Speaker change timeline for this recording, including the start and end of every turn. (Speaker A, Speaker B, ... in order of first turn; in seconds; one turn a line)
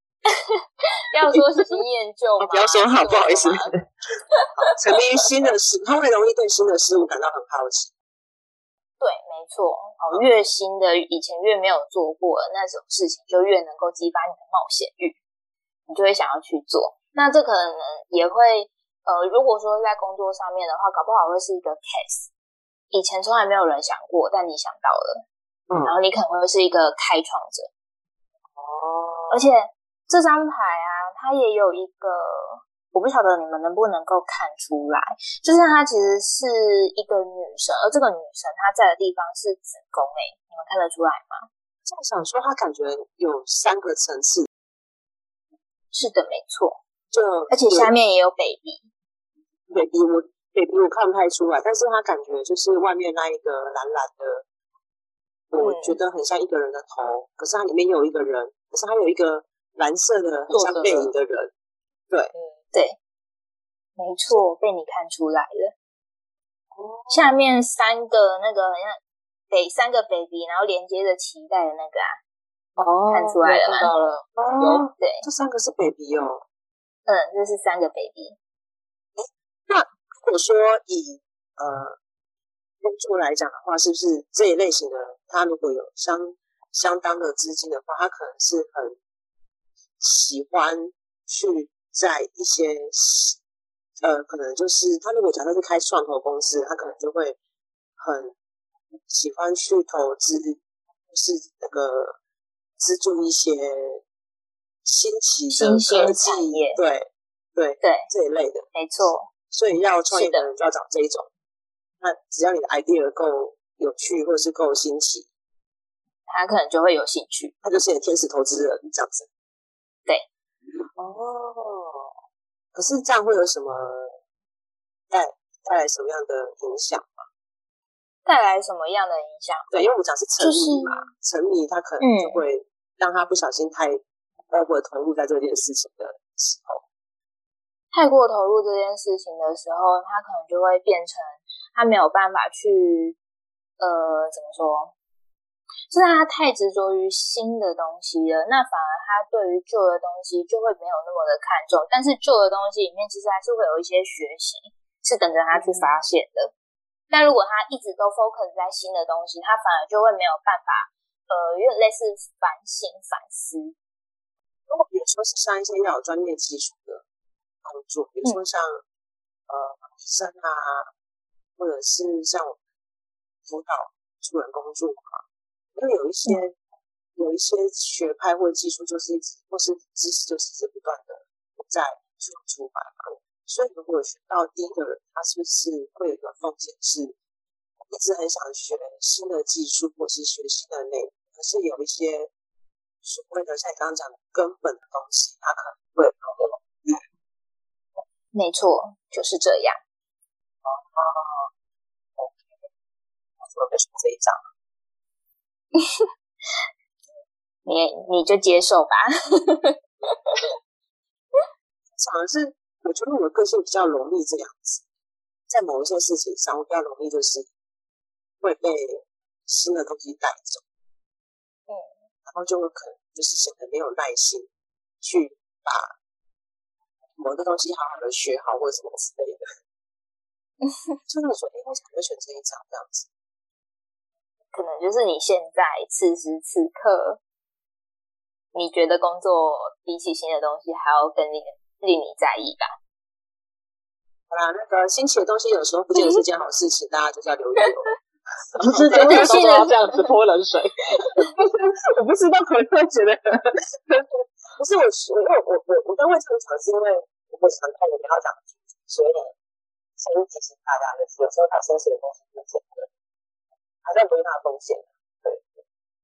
Speaker A: 1.1-3.7
Speaker B: 2.4-3.8
Speaker B: 4.6-7.9
Speaker A: 9.0-15.2
Speaker A: 15.9-22.3
Speaker A: 22.9-25.2
Speaker A: 25.8-27.7
Speaker B: 28.5-29.5
Speaker A: 29.3-41.5
Speaker B: 41.8-44.5
Speaker A: 45.9-46.8
Speaker B: 47.1-47.9
Speaker A: 47.5-48.8
Speaker B: 49.7-54.4
Speaker B: 55.5-61.5
Speaker A: 55.6-56.0
Speaker C: 60.5-61.1
Speaker A: 64.0-65.7
Speaker B: 66.7-67.3
Speaker A: 67.1-69.0
Speaker A: 69.5-72.2
Speaker C: 72.8-74.9
Speaker A: 73.1-73.9
Speaker B: 74.3-76.4
Speaker A: 75.0-75.2
Speaker A: 77.1-78.4
Speaker B: 79.2-82.0
Speaker B: 82.8-89.0
Speaker B: 90.0-93.4
Speaker B: 94.0-97.4
Speaker B: 98.0-98.3
Speaker B: 99.1-102.2
Speaker B: 102.8-104.0
Speaker B: 104.8-108.7
Speaker A: 105.5-106.8
Speaker A: 107.8-108.1
Speaker A: 108.7-109.3
Speaker B: 109.5-111.3
Speaker A: 110.1-110.5
Speaker B: 112.0-115.3
Speaker A: 116.3-117.5
Speaker B: 117.6-119.3
Speaker B: 121.0-122.1
Speaker B: 122.7-124.1
Speaker B: 125.1-127.2
Speaker A: 128.2-129.7
Speaker B: 129.7-136.8
Speaker A: 130.4-131.1
Speaker A: 132.0-132.4
Speaker A: 137.9-143.2
Speaker A: 143.8-144.9
Speaker A: 145.9-156.5
Speaker A: 157.1-163.7
Speaker B: 164.7-167.0
Speaker B: 167.6-168.8
Speaker B: 169.5-170.9
Speaker B: 171.6-172.6
Speaker B: 173.4-175.2
Speaker B: 175.8-176.6
Speaker B: 177.2-187.2
Speaker B: 187.9-192.3
Speaker B: 193.0-197.0
Speaker A: 198.3-199.8
Speaker B: 200.6-201.5
Speaker B: 203.4-204.4
Speaker A: 205.8-206.0
Speaker A: 207.7-210.1
Speaker B: 211.9-214.8
Speaker B: 215.5-217.5
Speaker B: 218.4-220.6
Speaker B: 222.3-224.5
Speaker B: 225.0-225.9
Speaker B: 227.2-229.4
Speaker B: 231.1-233.1
Speaker A: 234.5-237.2
Speaker A: 238.5-242.7
Speaker B: 244.3-247.9
Speaker C: 248.6-251.2
Speaker B: 248.6-249.7
Speaker A: 248.9-249.7
Speaker B: 251.3-259.3
Speaker B: 260.0-262.9
Speaker B: 263.8-265.5